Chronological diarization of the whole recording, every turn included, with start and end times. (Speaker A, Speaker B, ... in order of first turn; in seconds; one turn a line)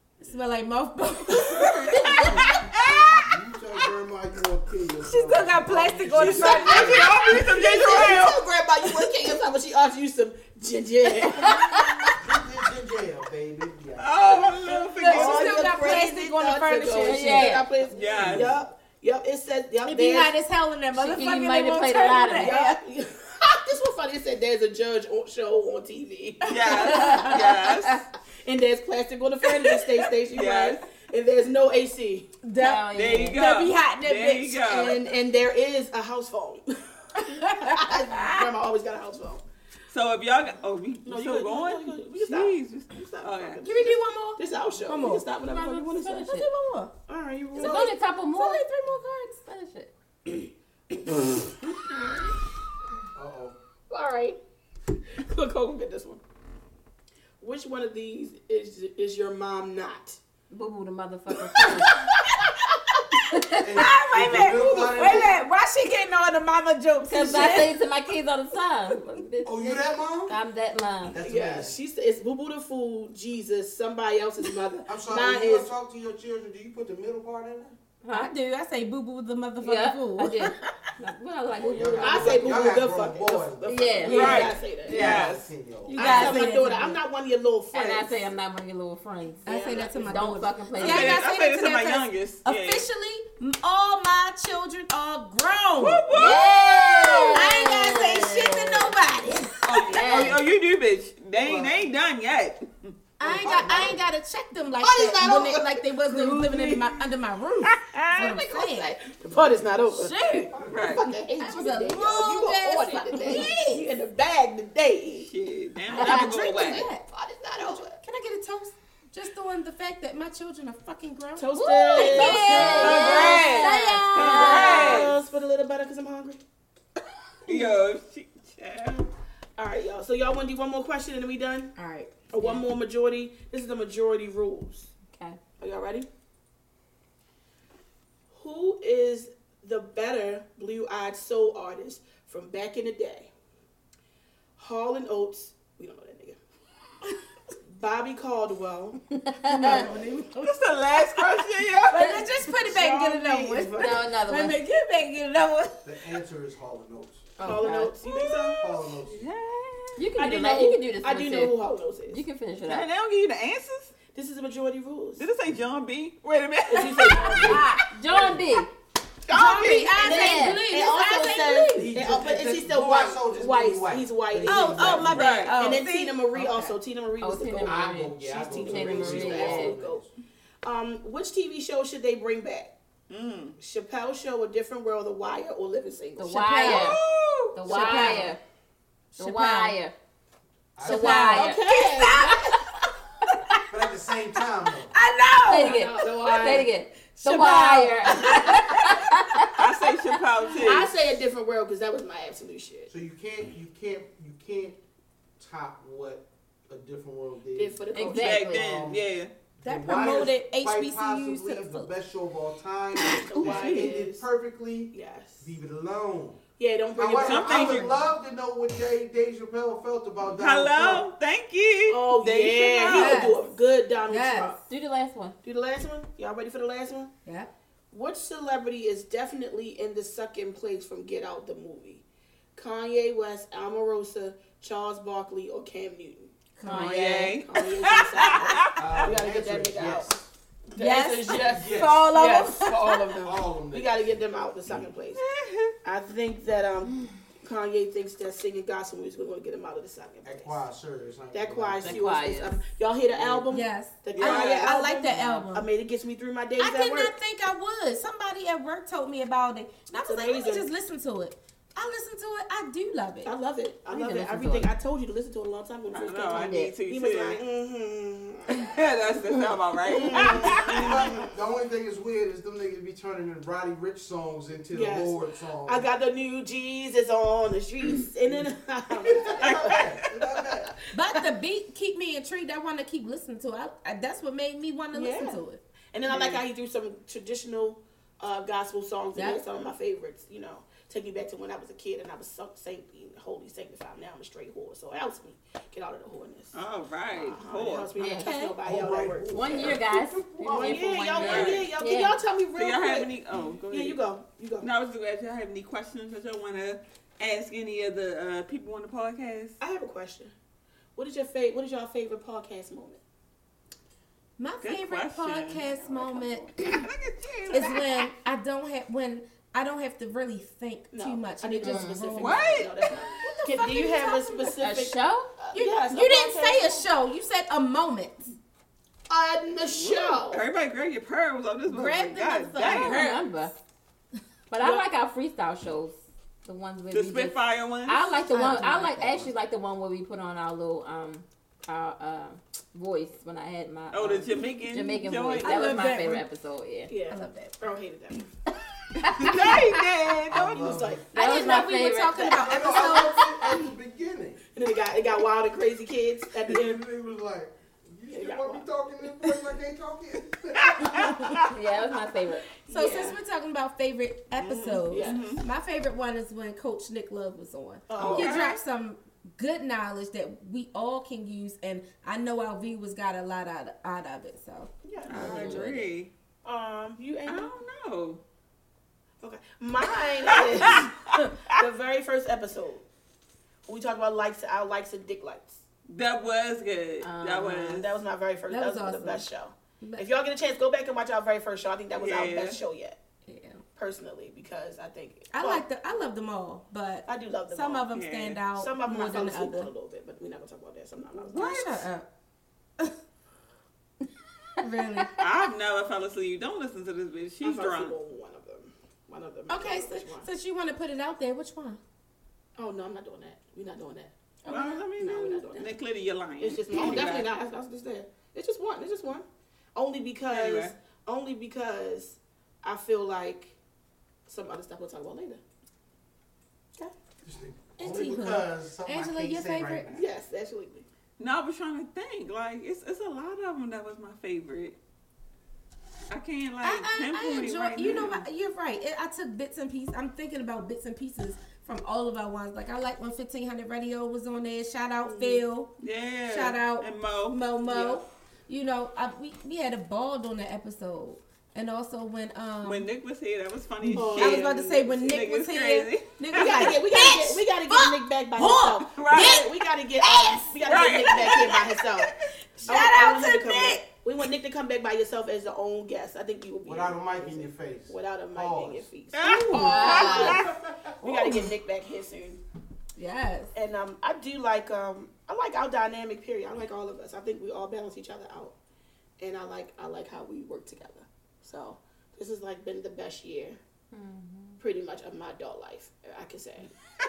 Speaker A: 0.2-2.7
Speaker B: 1.6-3.2
Speaker C: 2.3-7.2
Speaker A: 5.0-8.1
Speaker D: 6.2-11.6
Speaker B: 6.2-8.4
Speaker E: 11.4-12.1
Speaker A: 11.5-12.1
Speaker C: 12.2-14.3
Speaker B: 14.0-15.8
Speaker A: 14.7-17.6
Speaker D: 15.0-20.3
Speaker E: 17.0-17.7
Speaker B: 17.9-18.6
Speaker C: 18.1-18.6
Speaker A: 19.9-22.8
Speaker E: 20.9-22.6
Speaker D: 22.4-27.1
Speaker B: 26.5-28.1
Speaker A: 26.5-27.4
Speaker E: 26.9-27.4
Speaker D: 28.4-32.3
Speaker B: 30.3-30.8
Speaker A: 32.4-34.9
Speaker E: 32.6-33.4
Speaker B: 32.9-35.0
Speaker D: 34.6-39.4
Speaker A: 37.2-38.5
Speaker B: 39.9-43.6
Speaker D: 41.1-46.3
Speaker A: 43.6-45.3
Speaker E: 45.5-46.5
Speaker A: 46.2-46.9
Speaker D: 47.1-47.9
Speaker A: 47.5-49.3
Speaker E: 47.5-49.9
Speaker C: 53.1-53.6
Speaker D: 53.9-54.4
Speaker D: 55.1-56.2
Speaker D: 57.4-60.2
Speaker E: 60.5-62.1
Speaker D: 61.6-62.3
Speaker A: 63.1-67.8
Speaker E: 63.3-63.8
Speaker C: 63.6-65.4
Speaker D: 64.8-65.2
Speaker E: 67.1-71.2
Speaker C: 69.4-70.4
Speaker C: 71.1-71.8
Speaker D: 71.2-75.7
Speaker C: 74.9-77.8
Speaker E: 78.0-78.3
Speaker A: 78.1-80.5
Speaker E: 79.6-82.8
Speaker C: 81.6-86.1
Speaker D: 81.8-85.2
Speaker E: 83.7-84.5
Speaker B: 84.1-85.5
Speaker E: 85.9-86.6
Speaker A: 85.9-87.0
Speaker D: 85.9-88.2
Speaker E: 87.7-91.3
Speaker D: 89.5-90.3
Speaker A: 89.5-96.4
Speaker B: 90.8-92.9
Speaker B: 95.8-97.5
Speaker E: 96.1-98.9
Speaker A: 97.3-99.8
Speaker B: 99.6-103.0
Speaker E: 99.8-100.4
Speaker C: 101.3-101.8
Speaker A: 103.2-109.0
Speaker C: 103.2-104.0
Speaker D: 104.8-106.8
Speaker C: 105.1-105.5
Speaker B: 107.9-108.3
Speaker D: 108.0-110.2
Speaker A: 110.0-110.5
Speaker C: 110.3-111.1
Speaker B: 110.7-111.0
Speaker D: 110.8-115.3
Speaker A: 111.4-113.9
Speaker B: 115.2-116.9
Speaker A: 115.9-117.0
Speaker D: 116.0-118.0
Speaker A: 117.6-125.0
Speaker D: 121.4-126.4
Speaker E: 121.5-125.1
Speaker B: 122.3-125.2
Speaker B: 127.5-129.1
Speaker D: 129.6-131.7
Speaker A: 131.8-132.1
Speaker D: 132.3-134.9
Speaker E: 135.1-135.4
Speaker D: 135.6-136.1
Speaker D: 138.3-143.3
Speaker D: 144.6-146.4
Speaker D: 147.7-149.9
Speaker A: 149.5-150.6
Speaker B: 150.4-152.3
Speaker A: 151.9-155.9
Speaker D: 152.4-154.0
Speaker E: 153.8-154.6
Speaker C: 155.8-157.3
Speaker E: 157.4-157.9
Speaker D: 157.4-158.6
Speaker A: 158.1-158.6
Speaker C: 158.6-159.2
Speaker B: 159.1-160.1
Speaker E: 160.0-161.6
Speaker D: 160.2-162.2
Speaker E: 162.1-162.9
Speaker B: 162.7-163.9
Speaker D: 164.1-165.2
Speaker B: 165.2-167.7
Speaker D: 166.7-167.7
Speaker A: 167.0-167.9
Speaker E: 167.9-168.7
Speaker B: 169.3-170.1
Speaker A: 169.3-171.9
Speaker D: 170.0-180.1
Speaker E: 170.0-170.7
Speaker C: 171.8-175.4
Speaker A: 174.5-176.8
Speaker B: 175.1-175.6
Speaker E: 177.2-179.8
Speaker C: 177.6-180.1
Speaker D: 180.6-182.7
Speaker B: 183.1-183.6
Speaker D: 183.6-186.4
Speaker E: 186.2-187.0
Speaker A: 186.3-187.0
Speaker B: 186.6-187.6
Speaker E: 187.5-188.4
Speaker A: 187.7-188.4
Speaker D: 187.7-188.3
Speaker A: 189.1-189.8
Speaker E: 189.2-189.9
Speaker C: 190.8-191.4
Speaker E: 190.8-191.7
Speaker A: 190.8-193.6
Speaker D: 191.2-192.7
Speaker C: 193.7-194.9
Speaker A: 194.9-196.1
Speaker E: 195.4-199.5
Speaker D: 195.5-196.7
Speaker A: 197.2-199.5
Speaker B: 199.6-200.9
Speaker D: 200.5-202.9
Speaker C: 202.9-204.8
Speaker C: 205.4-207.8
Speaker D: 207.6-208.6
Speaker E: 207.9-208.7
Speaker B: 208.0-209.3
Speaker C: 208.5-209.0
Speaker C: 209.6-216.4
Speaker A: 209.7-211.9
Speaker D: 213.2-214.3
Speaker B: 213.4-213.9
Speaker D: 214.9-215.5
Speaker D: 216.6-218.0
Speaker C: 216.9-221.1
Speaker B: 217.2-218.0
Speaker B: 220.2-223.3
Speaker D: 221.9-224.6
Speaker A: 222.9-223.4
Speaker A: 224.1-224.6
Speaker E: 224.7-225.4
Speaker D: 225.4-227.1
Speaker A: 227.2-227.5
Speaker D: 227.9-232.0
Speaker D: 232.6-240.2
Speaker A: 236.6-237.1
Speaker B: 236.7-239.1
Speaker C: 238.7-240.3
Speaker D: 240.7-245.2
Speaker A: 240.8-243.1
Speaker C: 241.4-242.1
Speaker C: 243.2-244.0
Speaker B: 245.2-245.8
Speaker D: 245.8-250.6
Speaker C: 250.2-252.1
Speaker D: 251.3-257.1
Speaker E: 251.8-252.6
Speaker C: 253.2-253.4
Speaker A: 253.5-255.7
Speaker B: 254.2-254.8
Speaker E: 255.0-255.5
Speaker A: 256.6-263.3
Speaker D: 260.0-260.7
Speaker D: 263.2-268.9
Speaker E: 263.9-264.7
Speaker B: 265.9-267.4
Speaker E: 266.3-266.8
Speaker B: 268.6-271.1
Speaker D: 269.9-271.3
Speaker C: 270.1-275.9
Speaker D: 274.7-281.2
Speaker C: 278.3-280.7
Speaker B: 279.4-280.0
Speaker A: 280.9-285.6
Speaker D: 284.9-296.6
Speaker B: 286.1-286.4
Speaker A: 289.1-289.4
Speaker B: 296.5-297.9
Speaker D: 297.1-299.8
Speaker E: 298.0-298.3
Speaker A: 298.2-298.6
Speaker C: 298.6-301.2
Speaker E: 299.3-302.2
Speaker D: 300.4-303.1
Speaker B: 301.2-301.7
Speaker B: 302.6-304.0
Speaker D: 303.7-304.7
Speaker B: 304.6-309.6
Speaker D: 309.6-310.3
Speaker D: 311.0-313.0
Speaker A: 314.4-316.8
Speaker B: 314.6-318.1
Speaker A: 317.5-322.6
Speaker D: 320.9-326.9
Speaker E: 321.6-321.9
Speaker B: 322.2-322.7
Speaker A: 323.1-324.5
Speaker E: 324.6-325.3
Speaker A: 325.5-328.4
Speaker D: 329.1-330.5
Speaker B: 329.7-333.1
Speaker A: 331.7-333.2
Speaker E: 332.6-333.6
Speaker D: 332.6-333.1
Speaker E: 334.5-346.9
Speaker B: 336.9-338.1
Speaker A: 338.2-339.3
Speaker B: 343.9-345.9
Speaker A: 345.4-346.2
Speaker D: 346.9-348.3
Speaker A: 347.1-347.6
Speaker B: 349.0-350.9
Speaker E: 349.1-349.5
Speaker C: 350.3-351.1
Speaker D: 350.4-351.6
Speaker E: 351.1-352.9
Speaker A: 351.1-353.6
Speaker C: 352.3-354.4
Speaker D: 354.5-356.8
Speaker C: 356.4-361.4
Speaker D: 358.1-358.7
Speaker B: 360.6-361.5
Speaker A: 361.0-361.5
Speaker E: 361.5-362.5
Speaker D: 362.6-363.2
Speaker A: 362.7-375.9
Speaker B: 364.4-365.4
Speaker D: 364.9-365.3
Speaker D: 367.9-368.5
Speaker B: 368.0-368.6
Speaker D: 374.8-375.7
Speaker B: 375.1-376.1
Speaker E: 375.2-375.6
Speaker D: 376.4-377.5
Speaker B: 377.3-378.2
Speaker D: 379.2-382.9
Speaker B: 380.2-381.6
Speaker D: 383.7-385.6
Speaker B: 385.9-388.0
Speaker E: 387.0-387.8
Speaker D: 387.6-393.0
Speaker A: 388.5-389.2
Speaker B: 391.9-392.6
Speaker A: 393.3-393.6
Speaker D: 393.8-395.6
Speaker A: 395.3-399.7
Speaker D: 397.1-397.9
Speaker B: 397.9-398.4
Speaker D: 398.6-401.8
Speaker A: 401.3-402.1
Speaker B: 401.3-401.9
Speaker A: 404.6-405.2
Speaker B: 405.2-408.0
Speaker D: 407.4-410.3
Speaker A: 409.5-411.8
Speaker D: 412.6-414.1
Speaker A: 414.4-414.8
Speaker B: 414.5-417.3
Speaker D: 414.9-415.7
Speaker D: 416.4-423.6
Speaker B: 420.3-420.7
Speaker D: 424.3-425.4
Speaker C: 427.2-430.0
Speaker A: 427.8-429.9
Speaker D: 429.9-430.9
Speaker B: 431.2-434.8
Speaker B: 436.1-438.3
Speaker A: 436.6-445.7
Speaker D: 445.1-445.4
Speaker B: 445.8-447.5
Speaker A: 446.3-452.9
Speaker D: 447.6-448.0
Speaker B: 452.6-456.8
Speaker A: 453.8-459.5
Speaker D: 453.9-455.0
Speaker D: 456.3-462.1
Speaker B: 459.0-459.4
Speaker A: 460.0-461.6
Speaker B: 460.6-462.1
Speaker A: 462.6-463.8
Speaker D: 462.7-472.4
Speaker C: 466.6-468.9
Speaker B: 469.1-470.6
Speaker A: 469.5-470.4
Speaker E: 469.6-470.4
Speaker C: 470.5-470.9
Speaker A: 471.1-471.3
Speaker A: 473.0-473.5
Speaker D: 473.6-478.6
Speaker D: 479.2-483.6
Speaker E: 483.9-484.6
Speaker D: 484.6-486.7